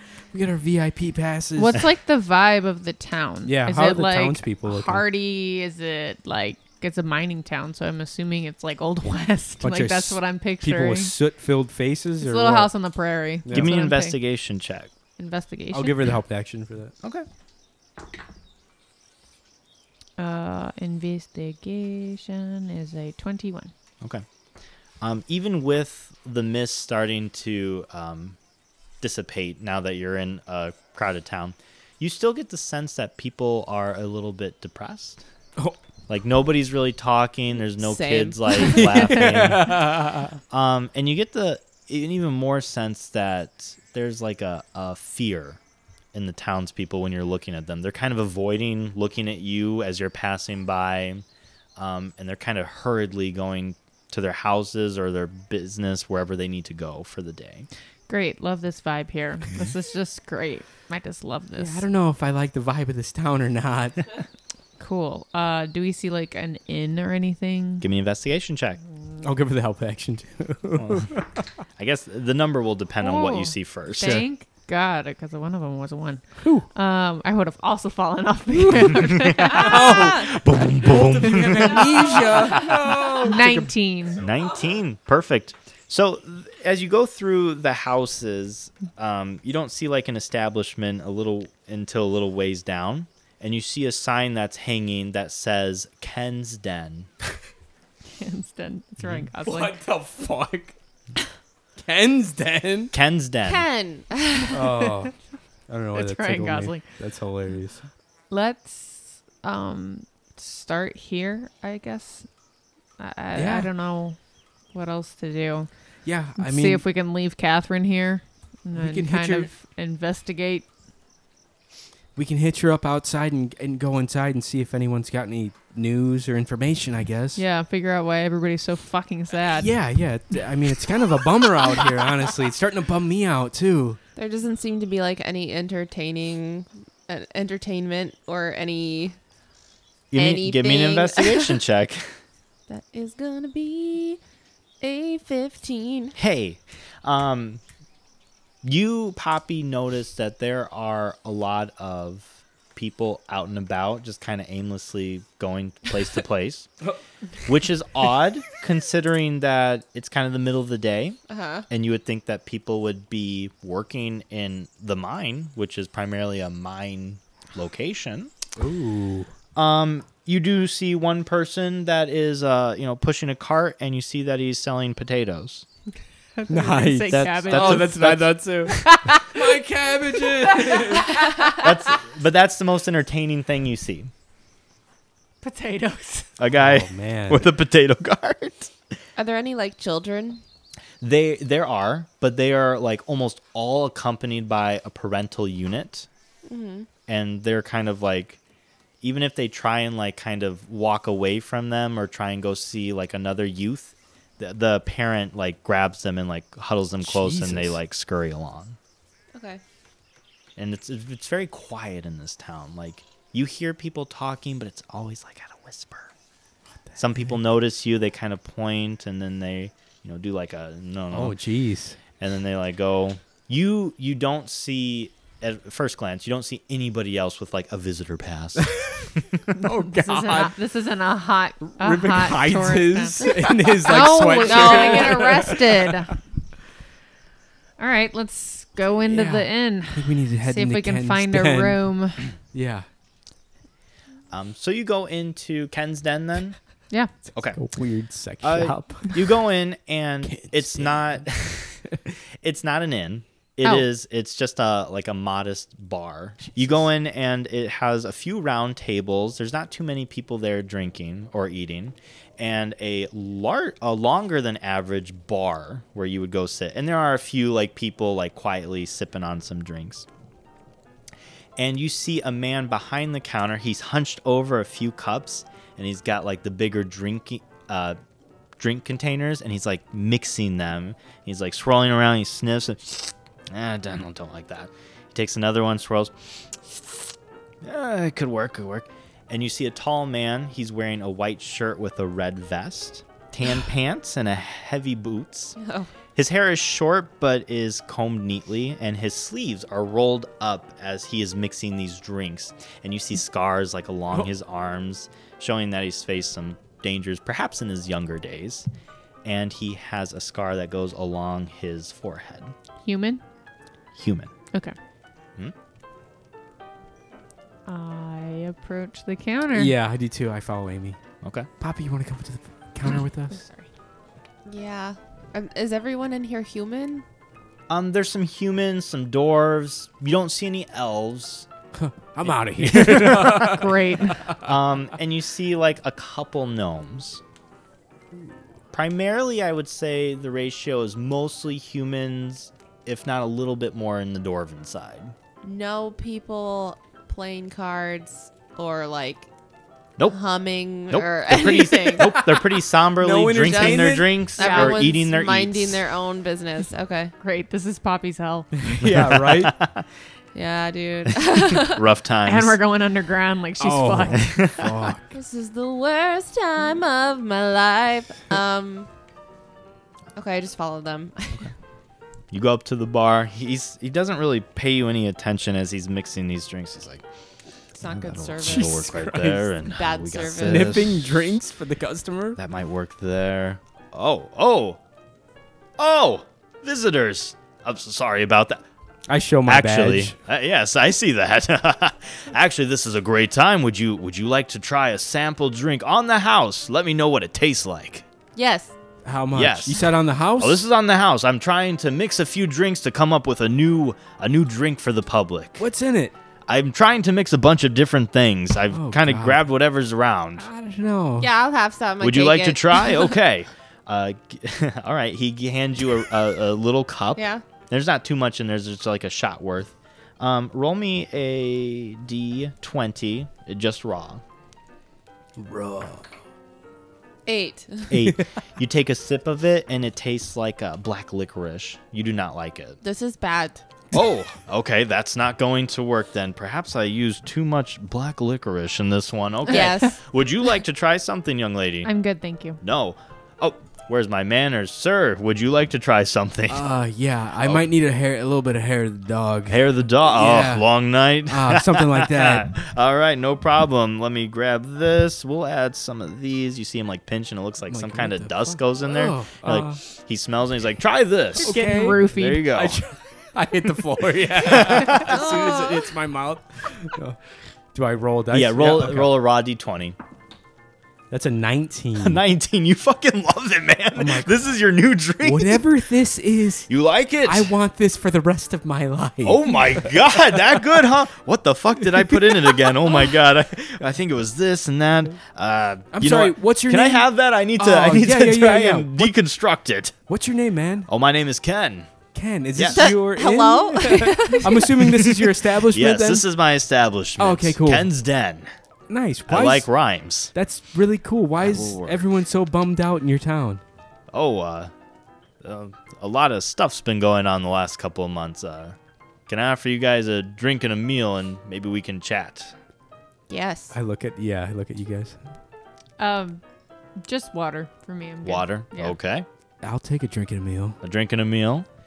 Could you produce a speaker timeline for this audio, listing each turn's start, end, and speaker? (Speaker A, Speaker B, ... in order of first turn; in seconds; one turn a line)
Speaker A: 0.3-1.8
Speaker B: 1.6-11.1
Speaker A: 3.5-5.0
Speaker A: 9.6-12.7
Speaker B: 12.2-14.2
Speaker A: 13.4-13.7
Speaker C: 13.5-14.9
Speaker B: 15.2-16.1
Speaker A: 15.7-16.9
Speaker B: 20.2-23.7
Speaker C: 25.0-28.4
Speaker C: 29.0-35.2
Speaker C: 36.1-45.6
Speaker D: 37.8-38.9
Speaker A: 38.6-40.4
Speaker C: 46.1-51.2
Speaker C: 51.8-57.7
Speaker B: 58.1-61.9
Speaker A: 61.6-64.0
Speaker B: 64.8-67.9
Speaker C: 67.8-68.8
Speaker A: 69.2-71.4
Speaker C: 70.8-71.2
Speaker C: 71.8-74.3
Speaker B: 73.0-80.2
Speaker A: 76.4-76.7
Speaker A: 78.5-83.7
Speaker C: 79.0-83.2
Speaker B: 83.2-84.2
Speaker C: 84.2-97.1
Speaker B: 98.2-99.8
Speaker A: 99.4-100.8
Speaker A: 101.8-102.9
Speaker C: 102.9-103.7
Speaker D: 103.5-104.6
Speaker A: 104.5-105.1
Speaker B: 104.5-105.1
Speaker A: 105.7-107.9
Speaker B: 106.0-106.8
Speaker B: 108.3-112.3
Speaker B: 113.0-114.2
Speaker A: 113.3-113.7
Speaker B: 114.7-115.7
Speaker A: 116.0-116.8
Speaker B: 116.4-120.7
Speaker A: 118.7-119.5
Speaker A: 122.2-127.4
Speaker B: 127.4-129.8
Speaker A: 129.5-134.0
Speaker D: 134.2-139.2
Speaker C: 140.1-142.1
Speaker D: 140.2-141.6
Speaker D: 142.7-144.2
Speaker D: 144.8-146.2
Speaker C: 146.2-147.6
Speaker C: 148.6-156.7
Speaker C: 157.5-161.2
Speaker D: 161.3-161.7
Speaker C: 161.7-168.3
Speaker A: 168.6-169.3
Speaker C: 169.6-175.7
Speaker B: 176.4-178.1
Speaker A: 176.5-181.2
Speaker C: 177.1-178.4
Speaker B: 178.7-179.5
Speaker B: 180.4-181.7
Speaker C: 181.6-184.1
Speaker B: 185.4-186.3
Speaker C: 186.4-188.7
Speaker A: 186.5-187.5
Speaker D: 189.2-190.4
Speaker C: 191.0-196.1
Speaker D: 196.4-196.9
Speaker C: 197.1-198.4
Speaker C: 199.0-208.8
Speaker A: 207.0-207.8
Speaker D: 209.3-209.6
Speaker C: 210.6-216.1
Speaker A: 216.9-217.3
Speaker C: 217.0-221.3
Speaker A: 221.1-222.0
Speaker C: 222.2-229.5
Speaker A: 228.6-230.5
Speaker B: 229.6-236.1
Speaker A: 231.6-236.2
Speaker D: 233.9-235.6
Speaker B: 237.8-242.2
Speaker A: 239.1-242.9
Speaker C: 244.3-246.6
Speaker A: 247.5-249.3
Speaker C: 248.4-251.8
Speaker A: 250.3-251.0
Speaker C: 252.4-270.1
Speaker C: 271.6-278.0
Speaker C: 278.6-286.1
Speaker C: 286.6-295.6
Speaker D: 295.6-295.9
Speaker C: 296.1-308.7
Speaker C: 309.2-312.5
Speaker B: 312.8-313.2
Speaker C: 314.0-314.3
Speaker B: 317.7-319.7
Speaker A: 319.5-321.0
Speaker C: 321.2-321.5
Speaker A: 321.6-323.4
Speaker B: 323.3-323.7
Speaker D: 324.5-327.0
Speaker C: 327.7-331.5
Speaker A: 331.7-334.5
Speaker C: 332.2-333.6
Speaker B: 333.4-334.3
Speaker C: 334.4-337.2
Speaker C: 338.7-345.1
Speaker D: 345.4-349.3
Speaker D: 350.1-352.2
Speaker C: 350.9-355.8
Speaker A: 352.0-352.4
Speaker A: 353.0-354.1
Speaker D: 353.4-357.1
Speaker B: 354.4-354.9
Speaker B: 357.2-358.5
Speaker A: 358.6-359.6
Speaker C: 358.8-359.9
Speaker D: 360.3-361.8
Speaker C: 361.1-362.6
Speaker B: 362.2-364.3
Speaker A: 363.6-365.1
Speaker C: 364.1-364.7
Speaker D: 365.1-368.9
Speaker D: 370.2-371.5
Speaker C: 372.3-377.0
Speaker D: 377.7-378.9
Speaker C: 377.9-381.1
Speaker A: 378.4-379.5
Speaker D: 379.6-380.9
Speaker A: 380.4-382.4
Speaker C: 382.4-384.8
Speaker C: 385.8-388.6
Speaker A: 389.1-390.1
Speaker C: 389.5-398.1
Speaker D: 398.4-398.7
Speaker A: 399.0-400.6
Speaker C: 399.3-399.8
Speaker C: 400.4-405.7
Speaker A: 405.6-406.1
Speaker C: 406.5-410.5
Speaker A: 408.7-409.4
Speaker A: 410.4-411.3
Speaker D: 411.2-413.1
Speaker C: 412.0-424.2
Speaker D: 417.2-417.4
Speaker A: 425.4-426.1
Speaker D: 427.3-427.9
Speaker C: 427.9-432.8
Speaker D: 432.8-433.6
Speaker C: 433.9-441.9
Speaker D: 439.5-440.0
Speaker B: 439.6-439.9
Speaker B: 441.8-442.6
Speaker C: 442.6-446.6
Speaker A: 446.5-450.7
Speaker C: 449.5-461.6
Speaker A: 451.3-452.5
Speaker A: 457.7-459.8
Speaker B: 461.4-462.4
Speaker A: 461.4-467.2
Speaker C: 462.1-462.8
Speaker C: 464.4-465.2
Speaker D: 464.9-465.9
Speaker A: 467.7-469.1
Speaker C: 468.3-470.0
Speaker A: 471.1-472.2
Speaker C: 472.0-475.6
Speaker A: 474.0-474.3
Speaker A: 475.2-476.7
Speaker C: 476.7-477.5
Speaker A: 477.2-480.6
Speaker C: 479.2-489.9
Speaker A: 485.9-489.1
Speaker A: 490.1-490.9
Speaker C: 490.9-491.9
Speaker A: 492.1-496.2
Speaker C: 492.6-492.9
Speaker D: 492.8-494.8
Speaker C: 494.8-498.5
Speaker A: 497.2-497.9
Speaker A: 498.9-499.7
Speaker C: 499.3-500.3
Speaker A: 500.3-503.6
Speaker C: 501.4-502.1
Speaker C: 504.1-504.7
Speaker C: 505.4-508.8
Speaker C: 509.3-512.5
Speaker D: 513.3-513.8
Speaker A: 513.7-515.2
Speaker B: 516.0-516.4
Speaker B: 517.0-519.0
Speaker C: 518.2-519.3
Speaker A: 519.6-520.8
Speaker C: 520.8-521.7